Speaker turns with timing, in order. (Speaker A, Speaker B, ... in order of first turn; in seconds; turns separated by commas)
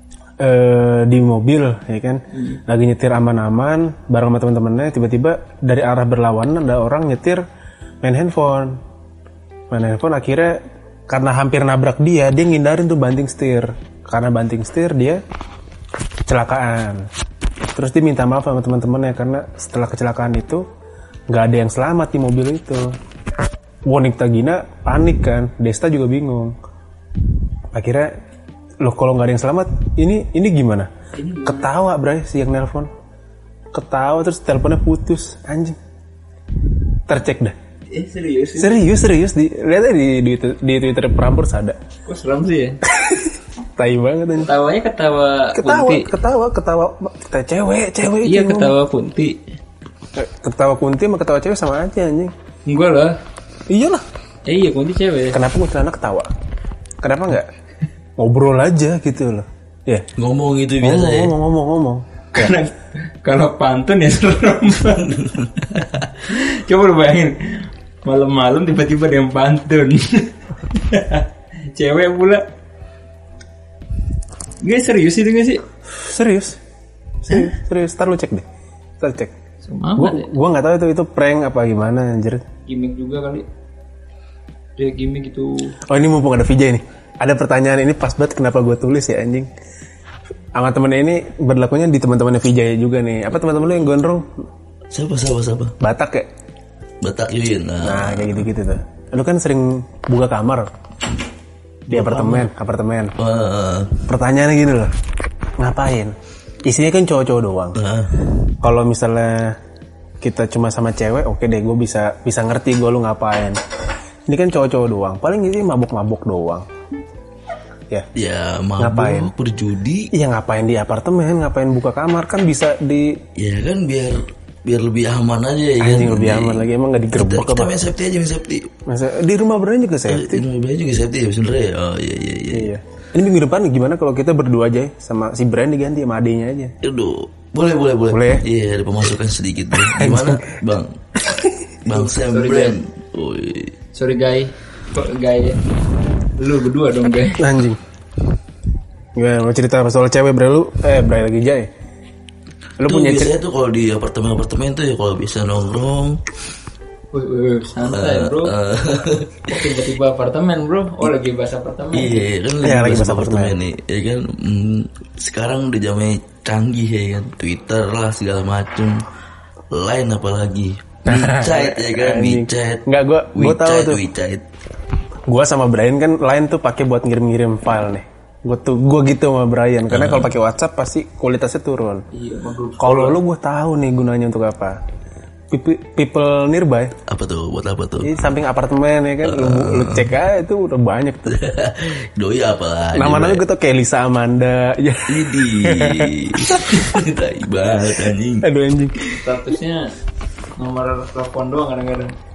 Speaker A: 0.4-7.4, Speaker B: 2.3-2.6, Speaker A: 8.0-8.8, Speaker A: 9.7-15.2, Speaker A: 16.3-17.1, Speaker A: 17.7-20.6, Speaker A: 21.3-23.0, Speaker A: 23.9-26.5, Speaker A: 27.7-28.1, Speaker A: 28.8-30.9, Speaker B: 31.1-31.7, Speaker A: 31.4-32.9, Speaker A: 33.7-35.8, Speaker A: 37.1-37.5, Speaker B: 37.9-38.8, Speaker A: 38.6-41.8, Speaker B: 42.1-42.8, Speaker A: 42.9-44.5, Speaker B: 44.4-46.1, Speaker A: 45.5-48.8, Speaker B: 48.2-49.4, Speaker A: 50.2-52.3, Speaker B: 52.7-53.2, Speaker A: 53.7-54.0, Speaker B: 54.5-55.4, Speaker A: 55.3-56.3, Speaker A: 57.0-57.5, Speaker A: 58.2-60.1, Speaker C: 60.2-61.3, Speaker A: 60.8-62.5, Speaker B: 62.3-65.2, Speaker C: 65.2-66.0, Speaker B: 66.2-72.5, Speaker B: 74.6-75.6, Speaker A: 75.9-76.6, Speaker A: 77.2-78.5, Speaker A: 79.0-79.3, Speaker B: 79.6-80.3, Speaker A: 80.0-82.4, Speaker B: 82.7-83.5, Speaker B: 84.8-85.8, Speaker A: 85.8-89.5, Speaker A: 90.6-94.3, Speaker C: 94.9-95.7, Speaker A: 95.8-96.3, Speaker C: 97.0-98.4, Speaker A: 97.8-100.7, Speaker C: 101.9-102.5, Speaker A: 101.9-103.2, Speaker C: 103.2-104.1, Speaker A: 104.1-104.9, Speaker A: 105.6-107.8, Speaker C: 107.8-108.1, Speaker A: 108.6-109.6, Speaker A: 110.2-113.6, Speaker A: 114.3-116.7, Speaker C: 118.2-120.1, Speaker A: 118.8-119.3, Speaker A: 120.1-123.2, Speaker C: 123.4-128.7, Speaker A: 125.8-127.8, Speaker A: 128.9-130.4, Speaker C: 130.1-132.7, Speaker A: 132.5-136.7, Speaker C: 136.8-141.0, Speaker A: 138.1-138.4, Speaker A: 139.8-140.5, Speaker A: 141.3-141.7, Speaker C: 141.8-143.7, Speaker B: 142.0-142.8, Speaker B: 143.9-145.6, Speaker B: 146.3-147.4, Speaker A: 147.4-147.8, Speaker A: 149.2-151.7, Speaker A: 152.8-153.4, Speaker C: 152.9-156.2, Speaker B: 157.1-158.6, Speaker C: 157.9-159.5, Speaker B: 159.5-162.3, Speaker C: 161.9-169.1, Speaker A: 162.6-163.6, Speaker C: 169.7-174.4, Speaker A: 171.1-174.0, Speaker A: 175.3-182.0, Speaker C: 179.9-180.3, Speaker B: 182.1-183.2, Speaker A: 182.8-184.8, Speaker A: 185.5-186.9, Speaker C: 187.1-188.1, Speaker A: 188.0-191.4, Speaker C: 189.2-190.1, Speaker C: 191.3-193.4, Speaker A: 192.9-196.8, Speaker C: 195.1-198.4, Speaker A: 198.4-199.2, Speaker B: 199.2-199.9, Speaker B: 200.6-202.1